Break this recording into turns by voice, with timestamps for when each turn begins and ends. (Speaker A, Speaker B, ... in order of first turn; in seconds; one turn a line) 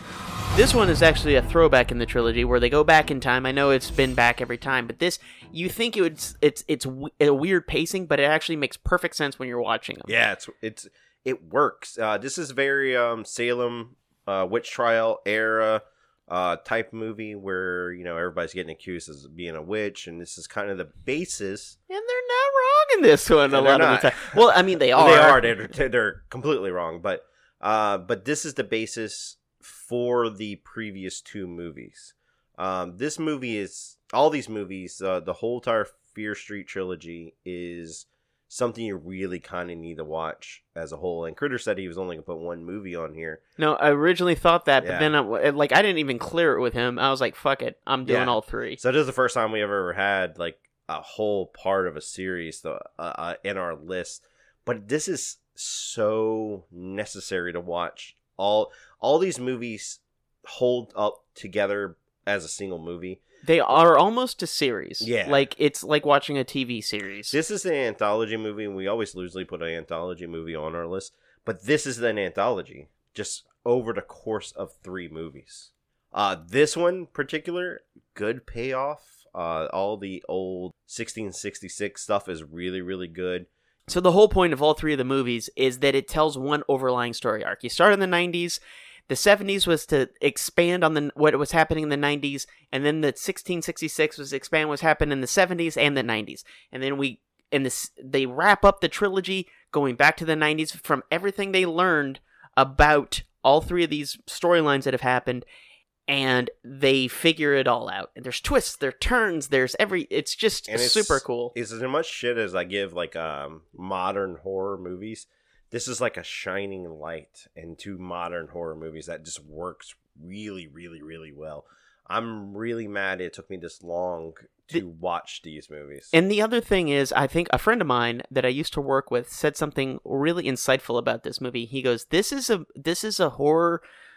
Speaker A: 0.5-10.2
Speaker B: 10.1-21.8
Speaker A: 21.9-25.5
Speaker B: 23.5-43.4
Speaker A: 43.6-48.8
Speaker B: 44.8-45.1
Speaker B: 48.0-63.2
Speaker A: 63.4-67.4
Speaker B: 65.0-65.5
Speaker B: 67.3-83.5
Speaker A: 83.9-105.5
Speaker A: 106.1-111.5
Speaker B: 110.7-126.1
Speaker A: 126.1-133.8